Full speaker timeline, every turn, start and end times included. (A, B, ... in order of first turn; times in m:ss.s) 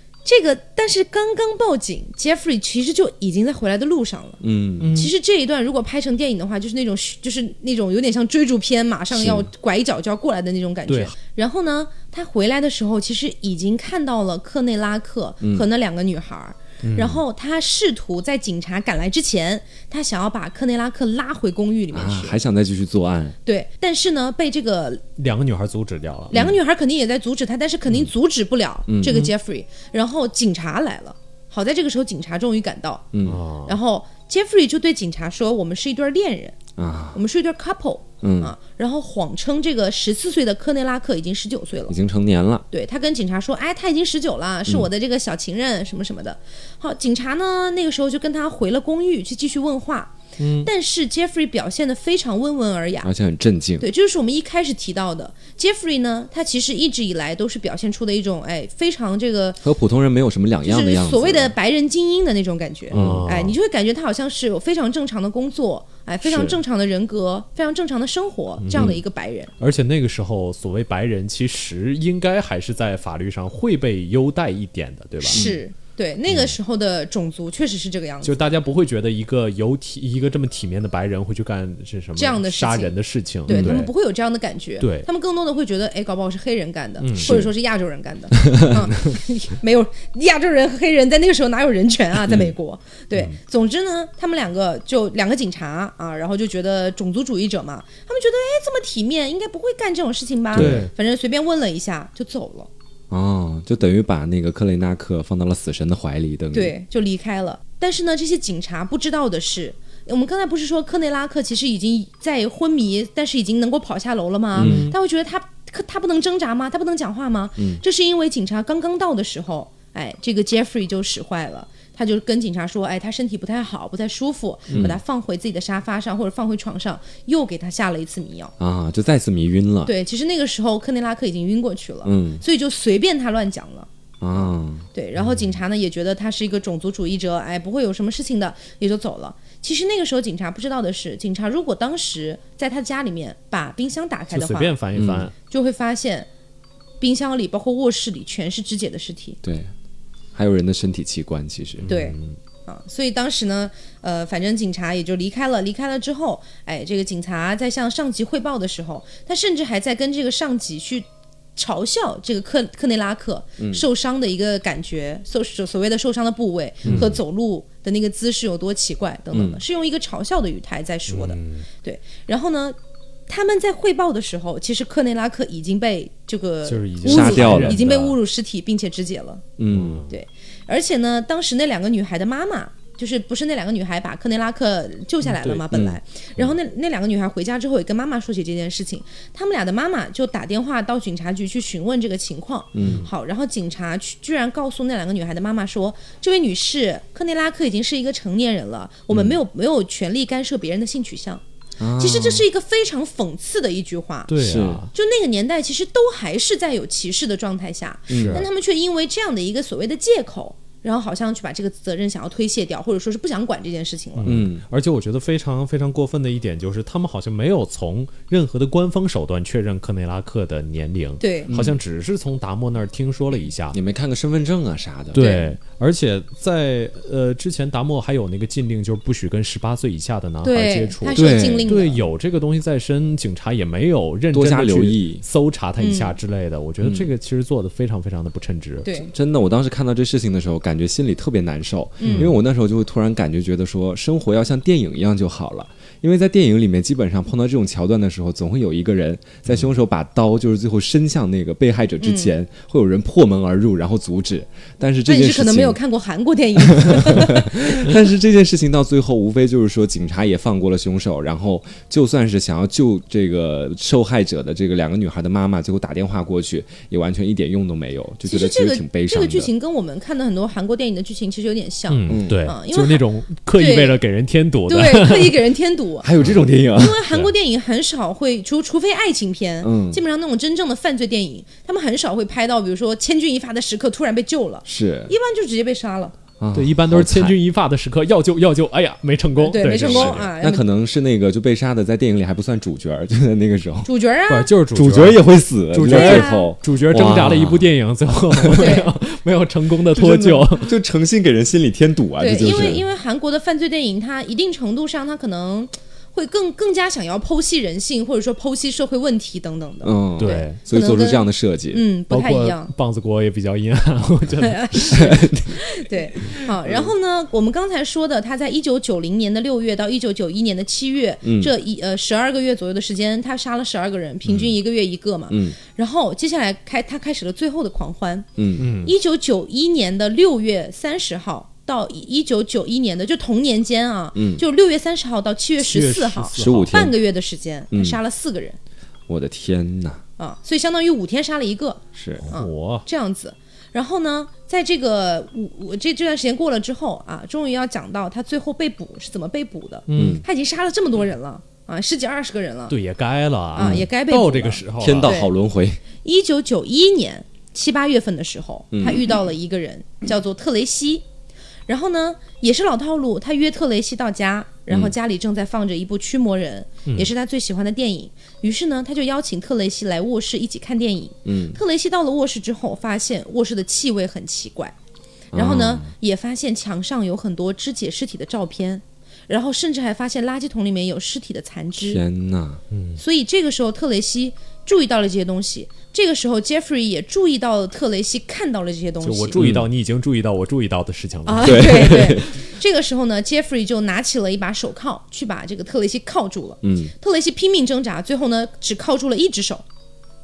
0:00.2-0:04.4 A
0:04.4-0:04.9 B
0:04.8-0:05.1 C
0:04.9-0:22.4 A
0:09.1-0:09.5 B
0:10.9-0:11.1 C
0:15.4-0:15.7 B
0:16.8-0:17.2 C
0:21.9-0:23.4 B
0:23.4-0:25.0 A
0:25.2-0:26.5 C
0:26.3-0:36.5 A
0:28.9-0:29.2 B
0:29.0-0:29.3 C
0:33.1-0:33.4 B
0:33.2-0:33.8 C
0:36.8-0:37.2 B
0:37.1-0:41.9 A
0:38.2-0:38.5 B
0:41.9-0:42.6 B
0:42.7-0:53.1 A
0:50.4-0:50.7 C
0:53.0-0:53.9 B
0:53.8-0:59.6 A
0:59.6-1:01.5 B
1:00.6-1:09.5 A
1:02.9-1:03.6 C
1:02.9-1:03.3 B
1:06.3-1:06.6 B
1:08.6-1:09.0 C
1:09.6-1:15.4 C
1:15.3-1:18.6 A
1:15.3-1:15.6 B
1:18.2-1:23.9 C
1:22.2-1:42.7 A
1:23.5-1:23.8 B
1:24.8-1:25.1 C
1:27.0-1:27.3 C
1:27.2-1:27.5 B
1:28.4-1:28.8 B
1:40.5-1:40.9 B
1:40.5-1:40.9 C
1:43.1-1:46.7 B
1:46.5-2:08.5 A
1:54.6-1:54.9 B
1:54.6-1:54.9 C
2:04.7-2:05.0 C
2:08.6-2:09.9 B
2:09.8-2:24.7 A
2:12.0-2:12.4 B
2:14.2-2:14.8 B
2:15.2-2:15.5 C
2:24.3-2:25.3 C
2:25.0-2:25.3 B
2:25.4-2:26.3 A
2:27.0-2:29.4 A
2:29.4-2:29.7 B
2:30.3-2:31.9 B
2:31.8-2:32.4 C
2:31.9-2:52.8 A
2:43.6-2:43.8 B
2:46.8-2:47.2 C
2:46.8-2:47.2 B
2:49.3-2:49.6 B
2:51.1-2:51.7 C
2:53.3-2:59.4 A
2:56.6-2:58.2 C
2:57.0-2:57.9 B
2:59.6-3:00.0 B
2:59.7-3:00.2 C
3:00.1-3:21.4 A
3:05.2-3:05.6 C
3:05.7-3:06.5 B
3:12.7-3:13.0 B
3:12.8-3:13.1 C
3:19.1-3:19.4 B
3:21.8-3:22.4 B
3:22.0-3:24.3 A
3:24.3-3:24.9 C
3:24.4-3:24.9 B
3:24.9-3:34.3 A
3:28.1-3:28.4 C
3:28.1-3:28.4 B
3:34.2-3:43.8 C
3:34.2-3:34.6 B
3:41.2-3:41.5 A
3:41.5-3:41.8 B
3:43.7-3:45.2 B
3:45.1-3:58.9 C
3:45.1-3:45.5 A
3:50.4-3:52.0 A
3:51.1-3:51.7 B
3:54.3-3:55.2 B
3:55.8-3:56.2 A
3:56.8-3:57.1 B
3:58.8-3:59.1 A
3:59.1-4:15.8 B
4:02.0-4:02.3 A
4:02.0-4:02.3 C
4:12.0-4:12.3 A
4:15.1-4:17.9 A
4:16.6-4:29.5 B
4:28.2-4:34.0 A
4:31.9-4:35.4 C
4:32.1-4:32.4 B
4:34.7-4:36.1 A
4:36.0-4:37.0 B
4:36.7-4:46.1 A
4:39.6-4:40.0 B
4:44.6-4:45.1 B
4:46.4-4:47.4 B
4:46.5-4:50.3 C
4:49.4-4:50.6 A
4:49.7-4:53.9 B
4:53.8-4:54.5 A
4:54.3-5:00.7 C
4:54.7-4:57.7 B
4:55.8-4:56.5 A
4:58.3-4:58.7 B
4:58.5-4:58.9 A
4:59.9-5:02.8 B
5:02.2-5:12.7 A
5:02.5-5:02.8 C
5:09.8-5:11.8 B
5:10.2-5:10.6 C
5:12.1-5:15.1 C
5:14.4-5:28.3 A
5:14.9-5:16.9 B
5:21.2-5:21.5 B
5:25.3-5:25.6 B
5:28.4-5:28.6 B
5:28.6-5:28.9 C
5:28.8-5:38.6 A
5:34.1-5:34.4 B
5:35.6-5:36.8 C
5:36.3-5:36.9 B
5:37.7-5:38.0 B
5:39.1-5:40.0 B
5:40.2-5:52.7 A
5:42.0-5:42.2 B
5:42.2-5:42.9 C
5:49.9-5:50.2 C
5:49.9-5:50.2 B
5:52.7-5:55.1 C
5:53.5-5:55.3 A
5:53.6-5:53.9 B
5:54.8-5:55.8 B
5:56.0-6:01.0 A
5:58.7-5:59.2 B
6:01.7-6:14.7 A
6:04.7-6:04.9 B
6:06.9-6:07.1 C
6:11.2-6:11.6 B
6:15.3-6:15.9 B
6:15.3-6:22.0 A
6:21.8-6:22.6 B
6:22.7-6:23.0 C
6:23.0-6:29.4 A
6:29.0-6:32.2 C
6:29.4-6:29.6 B
6:31.2-6:39.6 A
6:31.4-6:32.3 B
6:36.6-6:36.9 B